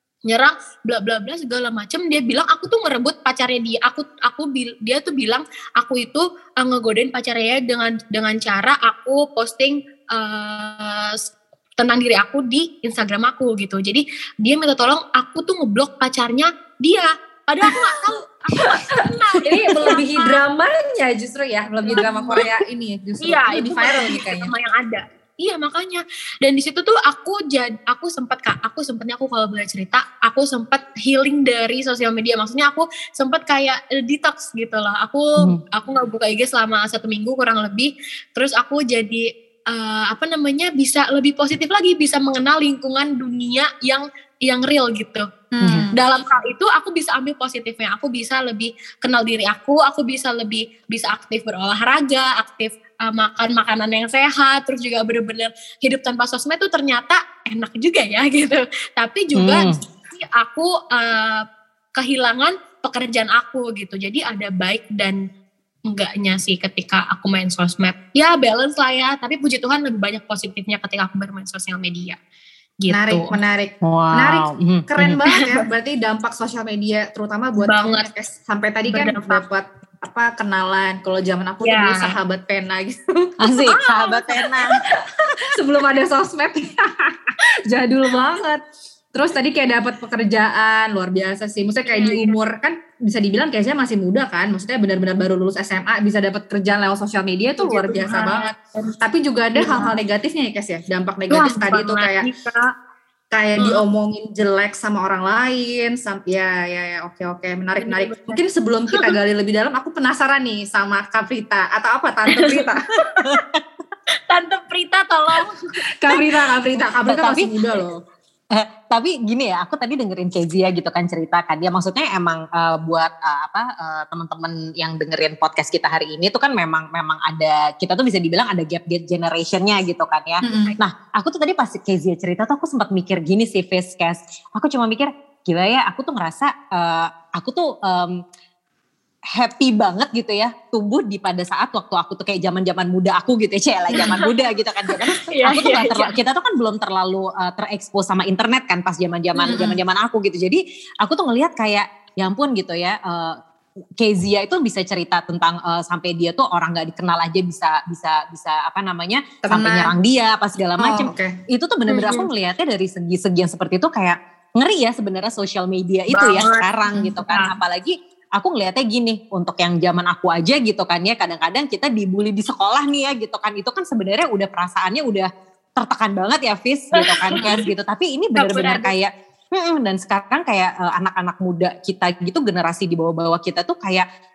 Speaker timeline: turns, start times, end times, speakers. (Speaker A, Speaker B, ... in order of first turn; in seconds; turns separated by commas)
Speaker A: 0.2-20.4, Speaker B: 17.7-18.0, Speaker B: 18.6-24.5, Speaker A: 21.8-22.6, Speaker A: 23.2-45.2, Speaker B: 45.5-46.0, Speaker C: 45.6-45.9, Speaker A: 45.9-61.4, Speaker C: 59.4-59.8, Speaker A: 62.0-65.2, Speaker A: 65.9-72.2, Speaker A: 72.8-73.3, Speaker B: 72.9-83.3, Speaker C: 73.8-75.2, Speaker A: 75.3-75.6, Speaker A: 77.6-78.1, Speaker A: 78.9-79.4, Speaker A: 81.6-82.1, Speaker C: 83.4-84.8, Speaker A: 83.7-84.6, Speaker B: 85.5-102.3, Speaker A: 91.9-92.3, Speaker A: 97.6-98.9, Speaker A: 99.5-100.0, Speaker A: 101.3-102.7, Speaker B: 103.3-112.9, Speaker A: 103.6-103.8, Speaker A: 107.8-108.4, Speaker A: 112.3-112.7, Speaker A: 114.3-116.3, Speaker B: 116.0-118.0, Speaker C: 117.1-117.5, Speaker C: 118.5-138.2, Speaker B: 130.4-130.7, Speaker A: 130.5-130.8, Speaker C: 139.3-153.4, Speaker B: 143.9-144.2, Speaker A: 143.9-144.3, Speaker A: 145.3-146.1, Speaker B: 149.4-149.8, Speaker C: 154.0-184.1, Speaker B: 159.4-159.9, Speaker B: 160.8-161.4, Speaker A: 161.9-162.3, Speaker A: 166.1-166.7, Speaker B: 166.9-167.3, Speaker A: 177.0-177.6, Speaker A: 178.3-178.9